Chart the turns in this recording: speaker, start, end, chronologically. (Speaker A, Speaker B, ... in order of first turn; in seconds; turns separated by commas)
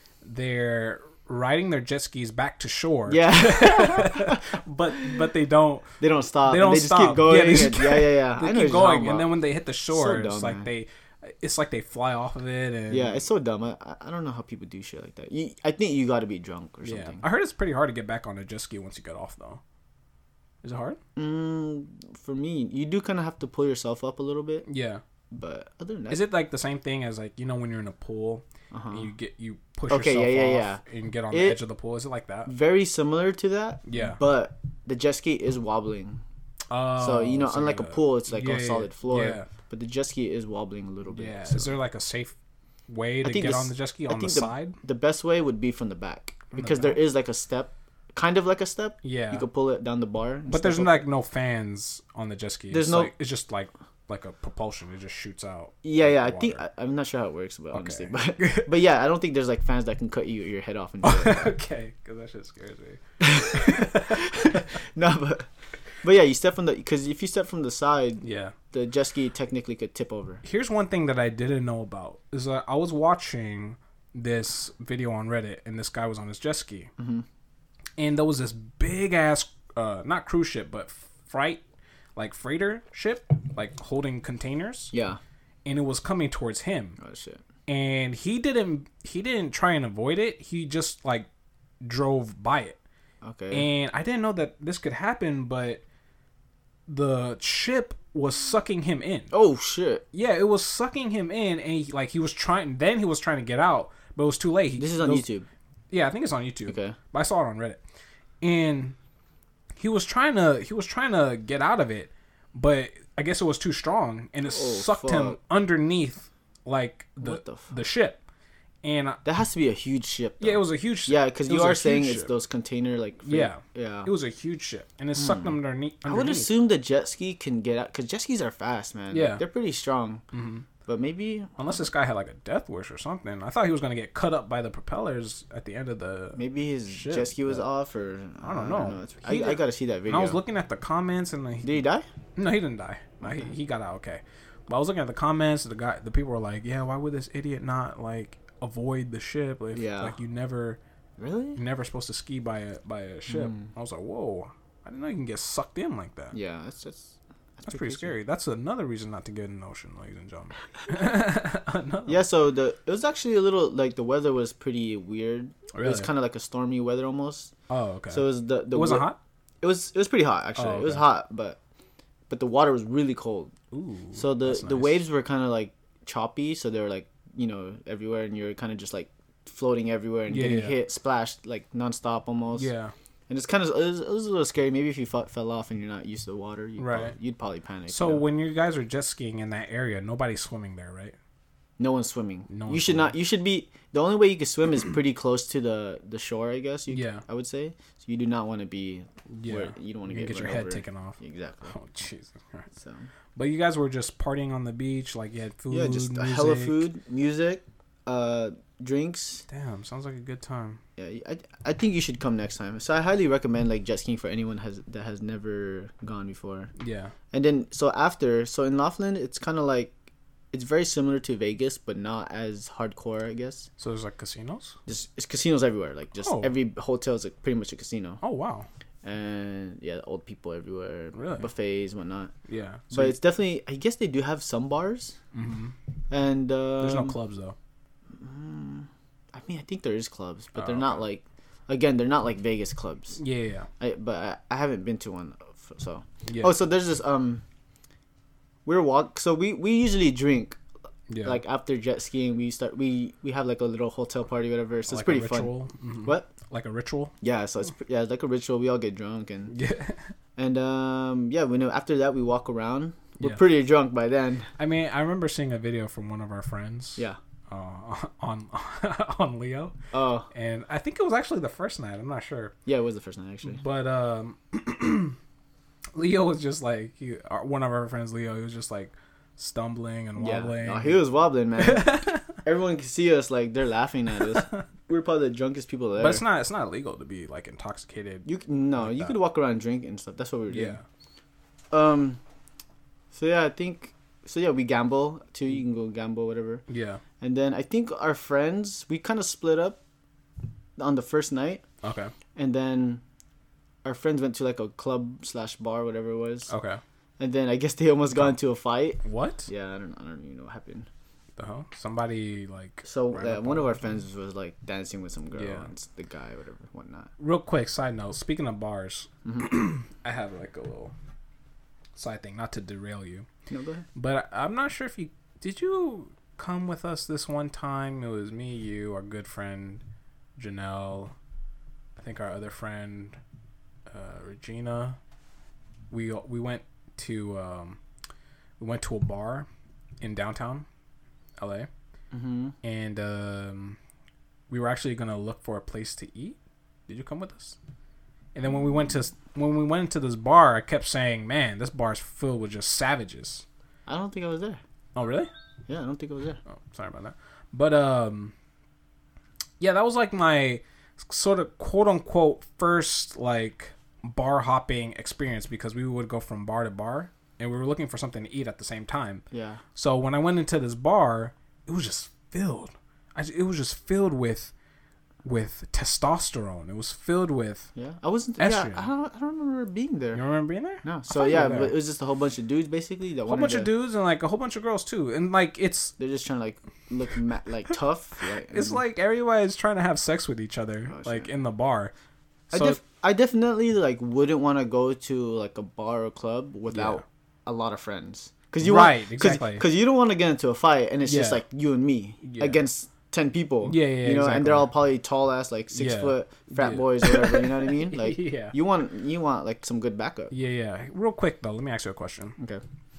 Speaker A: 0.2-13.2, Speaker B: 3.1-5.2, Speaker B: 6.0-9.3, Speaker B: 9.9-10.7, Speaker B: 12.9-17.2, Speaker A: 16.8-19.6, Speaker A: 20.6-21.0, Speaker B: 21.1-24.6, Speaker A: 24.6-25.0, Speaker B: 25.3-26.2, Speaker A: 26.1-32.5, Speaker B: 28.7-29.1, Speaker B: 29.9-31.6, Speaker B: 32.5-36.2, Speaker A: 33.9-34.2, Speaker A: 36.7-39.5, Speaker B: 37.0-41.7, Speaker A: 41.1-42.3, Speaker A: 42.9-44.8, Speaker B: 43.2-51.0, Speaker A: 46.5-47.0, Speaker A: 49.0-49.5, Speaker A: 50.5-56.6, Speaker B: 52.7-53.1, Speaker B: 55.8-61.5, Speaker A: 57.7-58.7, Speaker A: 61.0-64.6, Speaker B: 63.2-65.5, Speaker B: 66.0-70.4, Speaker A: 68.2-68.5, Speaker A: 70.4-76.9, Speaker B: 77.0-77.2, Speaker A: 78.0-81.6, Speaker A: 82.2-84.9, Speaker B: 84.9-85.2, Speaker A: 85.6-87.0, Speaker B: 87.0-87.4, Speaker A: 87.7-91.3, Speaker A: 91.8-92.8, Speaker B: 93.2-93.7, Speaker A: 93.5-95.8, Speaker A: 96.9-99.3, Speaker B: 99.3-100.0, Speaker A: 100.1-105.2, Speaker B: 104.8-105.5, Speaker A: 105.9-107.8, Speaker B: 106.7-107.0, Speaker A: 108.4-109.0, Speaker A: 109.8-118.2, Speaker B: 114.5-115.4, Speaker B: 117.2-117.7, Speaker A: 118.8-119.2, Speaker B: 119.2-124.1, Speaker A: 120.4-122.3, Speaker A: 123.2-126.5, Speaker B: 125.2-125.5, Speaker B: 126.0-130.2, Speaker A: 129.1-129.4, Speaker A: 130.3-130.7, Speaker B: 130.8-131.6, Speaker A: 131.6-137.6, Speaker B: 136.3-140.4, Speaker A: 138.4-141.7, Speaker B: 141.6-142.1, Speaker A: 142.3-150.8, Speaker B: 149.7-150.2, Speaker B: 151.2-151.6, Speaker A: 151.6-156.3, Speaker B: 153.3-153.7, Speaker B: 156.3-158.1, Speaker A: 157.7-162.2, Speaker B: 162.1-167.5, Speaker A: 165.7-166.1, Speaker A: 167.7-169.2, Speaker B: 168.1-169.1, Speaker B: 169.6-171.6, Speaker A: 170.6-171.0, Speaker B: 172.3-173.5, Speaker A: 173.7-175.0, Speaker B: 174.1-182.7, Speaker A: 180.3-180.8, Speaker A: 182.6-182.9, Speaker B: 183.3-188.2, Speaker A: 186.8-187.1, Speaker A: 187.9-191.2, Speaker B: 191.8-201.7, Speaker A: 192.5-193.1, Speaker A: 196.9-197.2, Speaker A: 199.3-201.2, Speaker A: 201.7-202.7, Speaker B: 202.8-203.1, Speaker A: 203.3-206.8, Speaker B: 205.7-209.4, Speaker A: 209.5-210.8, Speaker B: 211.0-216.7, Speaker A: 216.8-217.1, Speaker B: 217.3-219.9, Speaker B: 220.5-223.7, Speaker A: 223.8-224.8, Speaker B: 224.9-228.2, Speaker A: 226.2-226.5, Speaker A: 228.2-228.7, Speaker B: 229.0-232.3, Speaker A: 231.1-231.5, Speaker A: 232.5-233.2, Speaker B: 232.9-235.2, Speaker A: 235.3-235.7, Speaker B: 236.1-237.1, Speaker A: 236.8-237.6, Speaker B: 238.2-243.2, Speaker A: 240.6-241.0, Speaker A: 243.2-243.7, Speaker B: 243.8-247.4, Speaker A: 246.2-246.5, Speaker B: 248.7-250.6, Speaker A: 251.1-251.4, Speaker B: 251.2-255.5, Speaker A: 254.9-257.1, Speaker B: 256.0-256.3, Speaker B: 257.2-259.6, Speaker A: 259.5-260.1, Speaker B: 260.4-264.5, Speaker A: 264.6-269.8, Speaker B: 269.9-270.3, Speaker A: 270.3-272.5, Speaker B: 272.6-273.6, Speaker A: 273.4-275.2, Speaker A: 275.9-281.0, Speaker B: 280.2-286.2, Speaker A: 281.6-282.3, Speaker A: 286.0-289.1, Speaker B: 288.2-290.8, Speaker A: 290.5-290.8, Speaker B: 291.7-292.2, Speaker B: 293.1-296.6, Speaker A: 296.7-297.0, Speaker B: 297.2-299.8, Speaker B: 300.8-301.6, Speaker A: 301.8-302.1, Speaker B: 302.4-303.0, Speaker B: 303.8-306.5, Speaker A: 306.5-306.8, Speaker B: 307.2-310.9, Speaker A: 309.0-309.5, Speaker A: 311.4-314.0, Speaker B: 312.8-317.1, Speaker A: 315.4-315.7, Speaker A: 317.2-320.9, Speaker A: 321.9-323.3, Speaker B: 323.5-323.8, Speaker A: 323.9-329.8, Speaker A: 330.4-331.1, Speaker A: 331.9-333.2, Speaker A: 333.9-335.0, Speaker A: 335.9-337.8, Speaker A: 338.6-339.5, Speaker A: 340.0-340.7, Speaker A: 341.4-341.7, Speaker B: 342.1-342.5, Speaker A: 342.6-343.8, Speaker A: 344.5-347.6, Speaker A: 348.3-353.4, Speaker B: 353.9-354.6, Speaker A: 354.9-355.3, Speaker B: 355.7-356.4, Speaker A: 356.5-358.3, Speaker A: 359.6-369.2, Speaker B: 369.3-369.6, Speaker A: 369.7-374.5, Speaker A: 375.2-377.7, Speaker B: 377.8-380.2, Speaker A: 378.4-378.9, Speaker A: 380.1-381.7, Speaker B: 380.8-383.7, Speaker A: 383.3-385.9, Speaker B: 386.0-388.8, Speaker A: 388.5-391.9, Speaker B: 390.9-391.3, Speaker A: 392.5-392.8, Speaker B: 392.5-410.3, Speaker A: 396.7-397.0, Speaker A: 398.6-399.6, Speaker A: 401.1-401.4, Speaker A: 402.2-402.6, Speaker A: 403.6-404.7, Speaker A: 405.7-408.5, Speaker A: 410.3-412.4